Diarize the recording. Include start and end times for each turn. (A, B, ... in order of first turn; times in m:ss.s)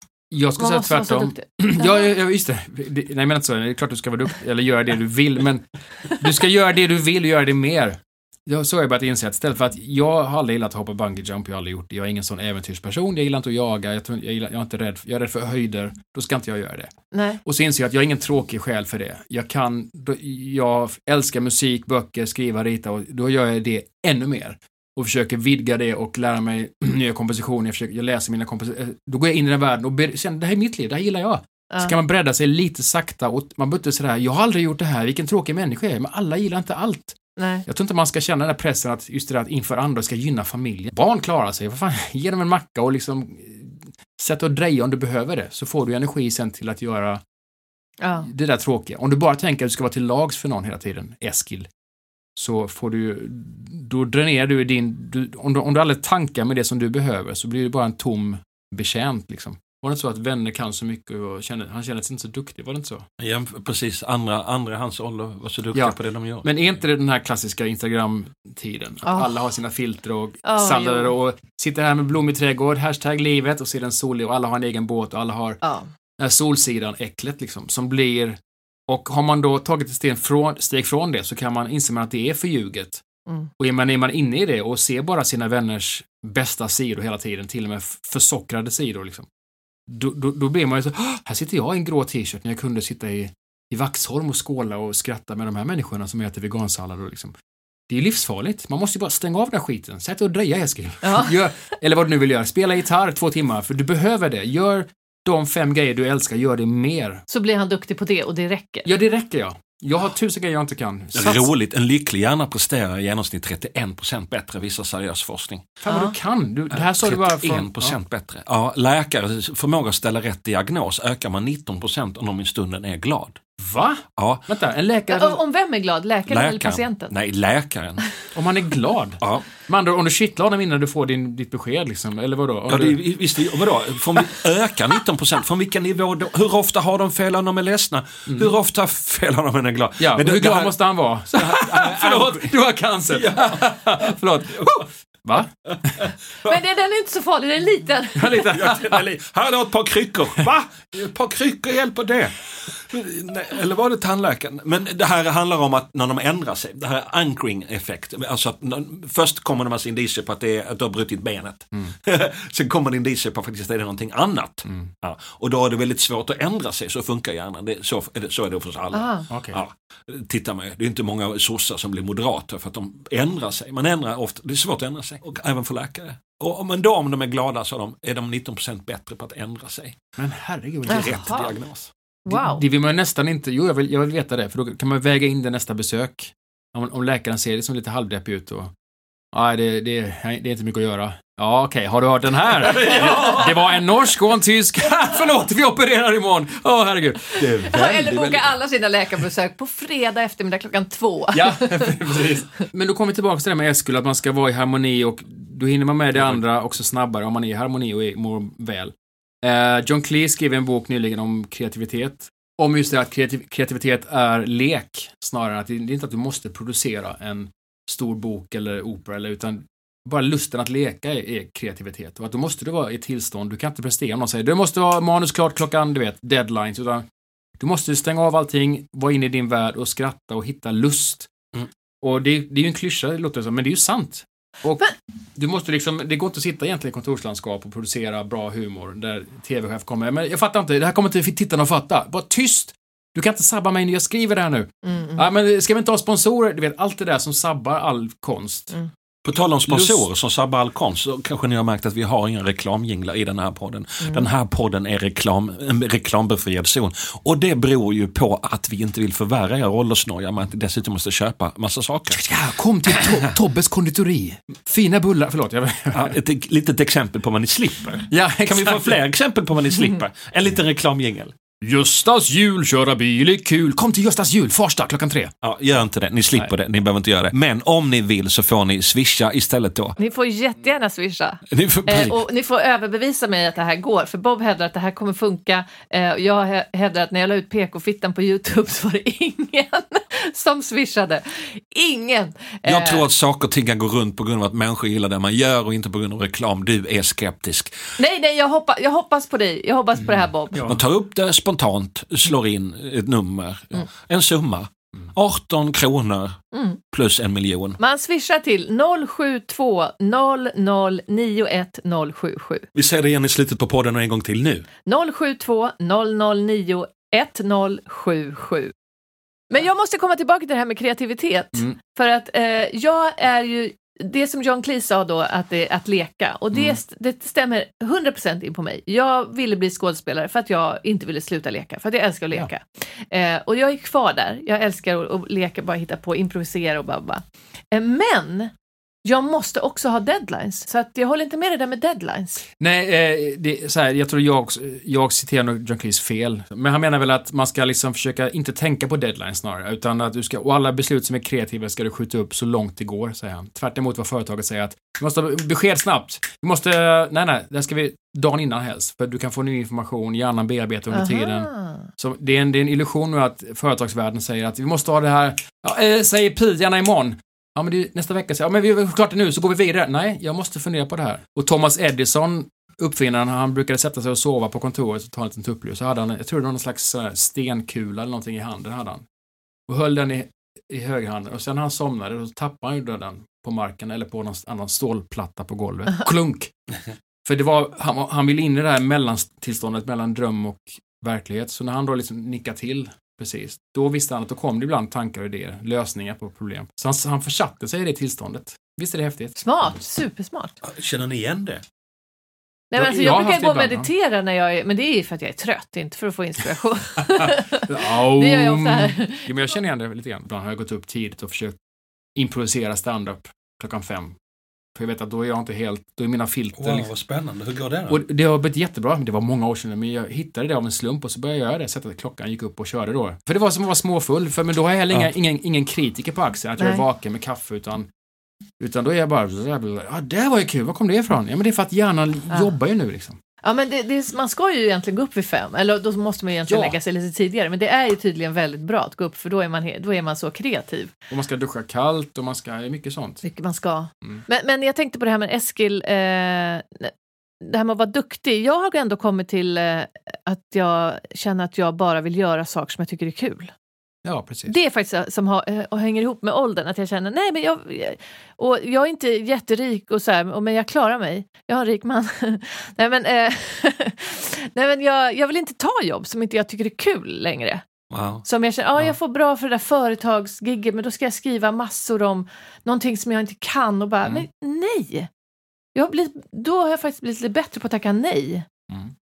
0:00.3-0:16.9 A
0:00.6-0:02.0 B
0:17.1-0:17.4 B
0:17.4-0:47.2 A
0:31.7-0:31.9 B
0:37.4-0:37.6 B
0:48.0-0:48.3 B
0:48.2-0:51.7 A
0:52.4-1:03.1 A
1:03.2-1:06.5 C
1:05.7-1:15.6 A
1:09.0-1:09.3 B
1:10.4-1:11.1 B
1:15.6-1:15.9 B
1:16.2-1:23.0 A
1:23.6-1:29.3 A
1:29.9-1:37.3 A
1:37.9-1:47.2 A
1:41.0-1:41.4 B
1:47.3-1:48.9 B
1:48.8-1:51.5 A
1:51.1-1:55.7 C
1:55.8-1:58.0 A
1:55.9-1:56.1 B
1:56.7-2:03.4 C
2:03.6-2:05.4 A
2:04.2-2:04.4 C
2:05.1-2:07.1 B
2:06.3-2:08.1 C
2:08.3-2:13.0 A
2:09.2-2:09.5 C
2:12.7-2:20.8 C
2:18.3-2:18.5 A
2:20.0-2:26.0 A
2:21.3-2:22.5 C
2:23.1-2:24.8 C
2:25.6-2:26.6 C
2:26.4-2:28.7 B
2:28.2-2:29.0 A
2:28.3-3:00.0 C
2:48.9-2:49.3 B
2:49.3-2:49.6 A
3:00.2-3:01.3 A
3:00.9-3:01.5 B
3:00.9-3:01.9 C
3:02.2-3:02.6 B
3:02.3-3:08.7 A
3:09.3-3:17.4 A
3:12.6-3:13.6 C
3:17.4-3:18.6 C
3:17.6-3:21.9 B
3:21.3-3:47.0 A
3:26.1-3:26.4 C
3:47.6-3:51.3 A
3:52.0-4:08.7 A
4:04.8-4:05.2 B
4:09.2-4:22.2 C
4:09.7-4:10.0 A
4:14.0-4:14.3 B
4:22.1-4:26.2 A
4:22.9-4:23.3 C
4:25.9-4:31.3 C
4:28.1-4:29.0 A
4:31.6-4:35.3 A
4:35.4-4:40.0 C
4:40.0-4:53.0 B
4:41.5-4:42.2 C
4:52.6-4:57.9 C
4:58.0-5:00.6 B
5:00.0-5:00.8 A
5:00.6-5:06.4 C
5:06.5-5:06.8 B
5:06.9-5:07.8 C
5:07.8-5:12.7 B
5:12.7-5:14.6 C
5:14.8-5:18.7 B
5:19.5-5:38.5 B
5:26.5-5:26.8 A
5:39.0-5:42.4 B
5:42.6-6:19.0 A
6:00.9-6:01.9 B
6:19.7-6:26.5 A
6:27.2-6:39.8 A
6:39.4-6:40.5 B
6:40.6-6:41.6 C
6:42.7-6:49.3 B
6:42.8-6:43.9 A
6:47.6-6:51.6 A
6:52.2-6:54.1 A
6:54.7-6:56.9 A
6:56.6-6:58.0 C
6:57.9-7:07.9 A
7:06.6-7:06.8 B
7:08.6-7:13.2 A
7:13.4-7:20.9 B
7:16.5-7:16.8 A
7:21.1-7:23.2 A
7:23.2-7:33.5 B
7:34.0-7:34.5 A
7:34.5-7:47.6 B
7:47.9-7:48.2 C
7:48.2-7:55.1 B
7:55.7-7:58.5 B